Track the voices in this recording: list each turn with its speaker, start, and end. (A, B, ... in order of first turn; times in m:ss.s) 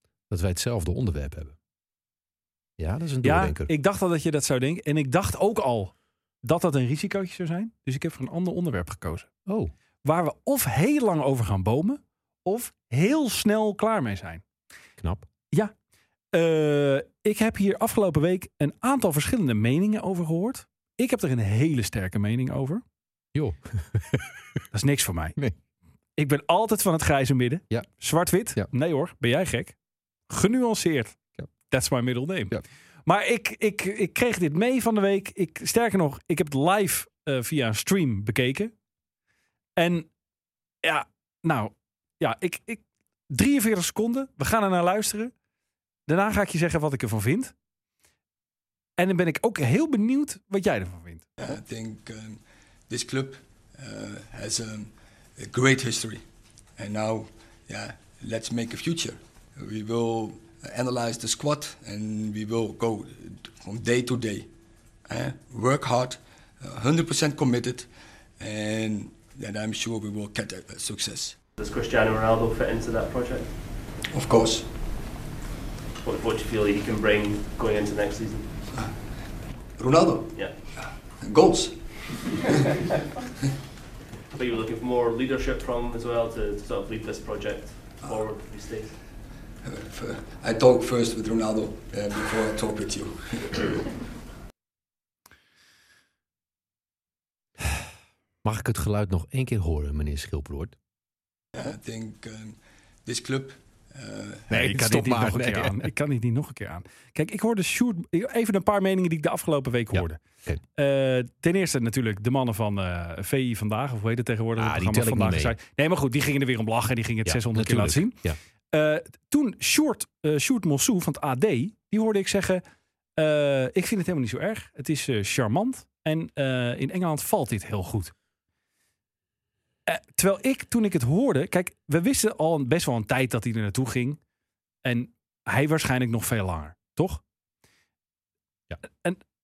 0:00.3-0:01.6 A
0:02.8-0:03.7 A
0:03.2-0:09.3 B
0:09.5-0:09.7 A
0:10.0-0:14.4 B
0:15.0-0:15.3 A
0:16.3-0:22.8 B
0:23.3-0:24.6 A
0:24.7-0:25.4 B
0:26.2-0:29.8 B
0:30.3-0:38.7 B
0:39.8-0:40.1 B
0:40.8-0:45.3 B
0:46.1-0:47.5 B
0:49.0-0:51.3 B
0:51.4-0:56.2 C
0:56.8-1:04.5 C
1:05.1-1:07.9 C
1:08.4-1:11.4 C
1:11.6-1:13.5 D
1:14.1-1:14.7 C
1:16.0-1:18.5 D
1:19.8-1:20.3 C
1:21.2-1:21.8 C
1:24.3-1:28.9 D
1:29.6-1:33.9 C
1:38.4-1:40.8 A
1:41.6-1:44.5 C
1:44.5-1:45.9 A
1:44.5-1:50.2 B
1:49.9-1:50.6 A
1:50.8-1:58.2 B
1:54.6-1:55.6 A
1:57.2-1:58.4 A
1:58.7-2:02.6 B
2:03.2-2:08.1 B
2:09.9-2:14.2 B
2:14.8-2:17.2 B
2:18.9-2:19.2 B